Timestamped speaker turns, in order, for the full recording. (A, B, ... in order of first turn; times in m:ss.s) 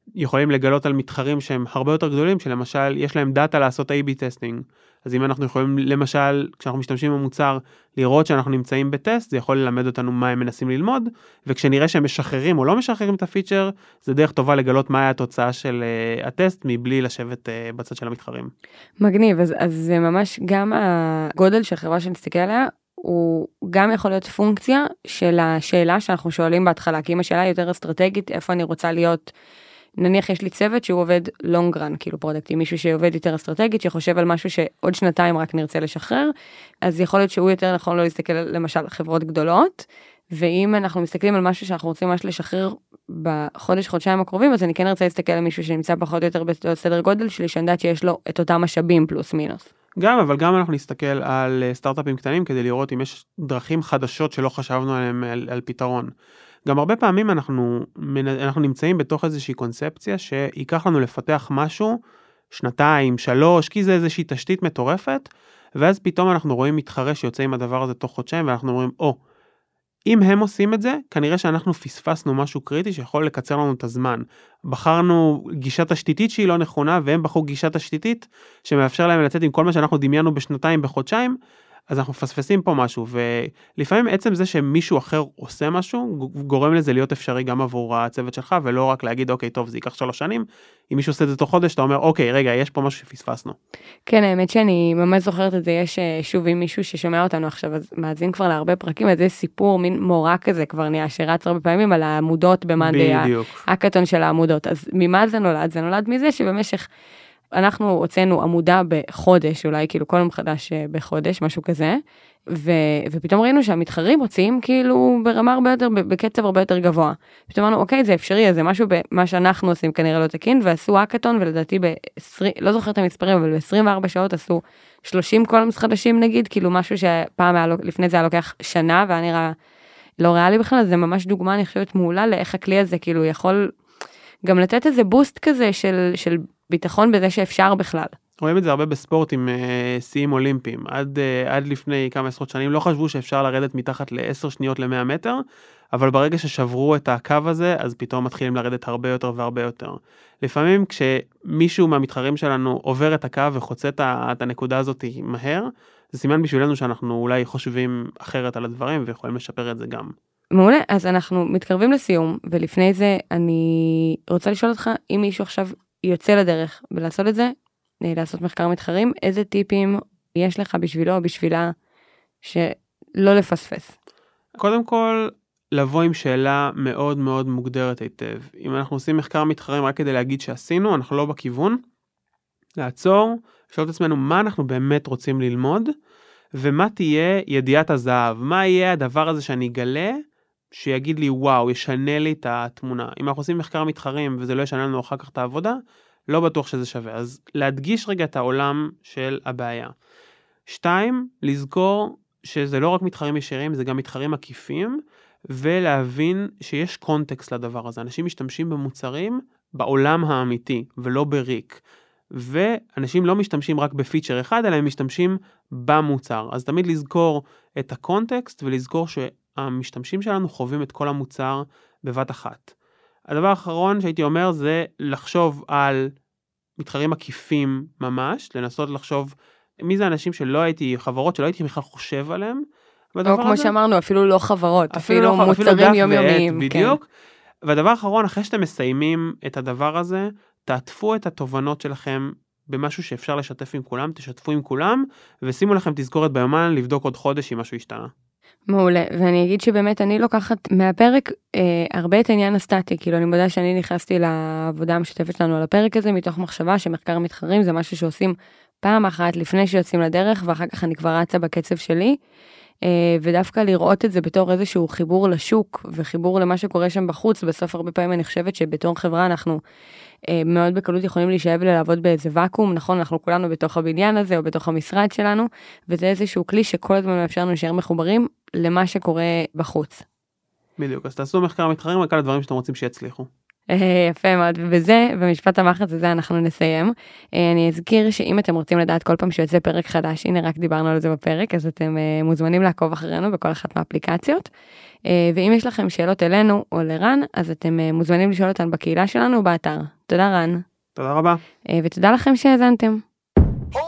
0:00.2-0:18.5 A
0:19.0-0:29.3 B
0:30.0-0:36.3 B
0:36.8-0:49.6 B
0:50.0-0:56.1 A
0:56.6-1:02.0 A
1:02.5-1:09.2 A
1:10.1-1:21.3 A
1:21.9-1:33.6 A
1:34.0-1:46.8 B
1:42.8-1:43.6 A
1:47.5-1:52.0 B
1:52.5-2:09.5 B
2:10.2-2:13.7 B
2:14.4-2:18.1 B
2:18.4-2:25.4 A
2:25.9-2:40.1 A
2:40.5-2:51.7 B
2:52.4-2:53.9 B
2:54.6-3:01.8 A
3:02.8-3:05.9 A
3:06.6-3:10.2 A
3:10.7-3:15.8 A
3:16.3-3:19.9 A
3:20.7-3:25.0 A
3:25.5-3:31.8 A
3:32.3-3:42.7 A
3:43.3-3:46.1 A
3:46.8-3:52.6 A
3:53.1-3:53.7 A
3:53.2-3:56.9 B
3:54.9-3:57.0 A
3:57.6-4:08.1 A
4:08.7-4:22.1 B
4:22.8-4:29.6 B
4:30.3-4:40.0 B
4:40.8-4:43.3 A
4:43.7-4:54.5 B
4:55.1-5:00.6 B
5:01.0-5:01.4 A
5:01.7-5:03.0 B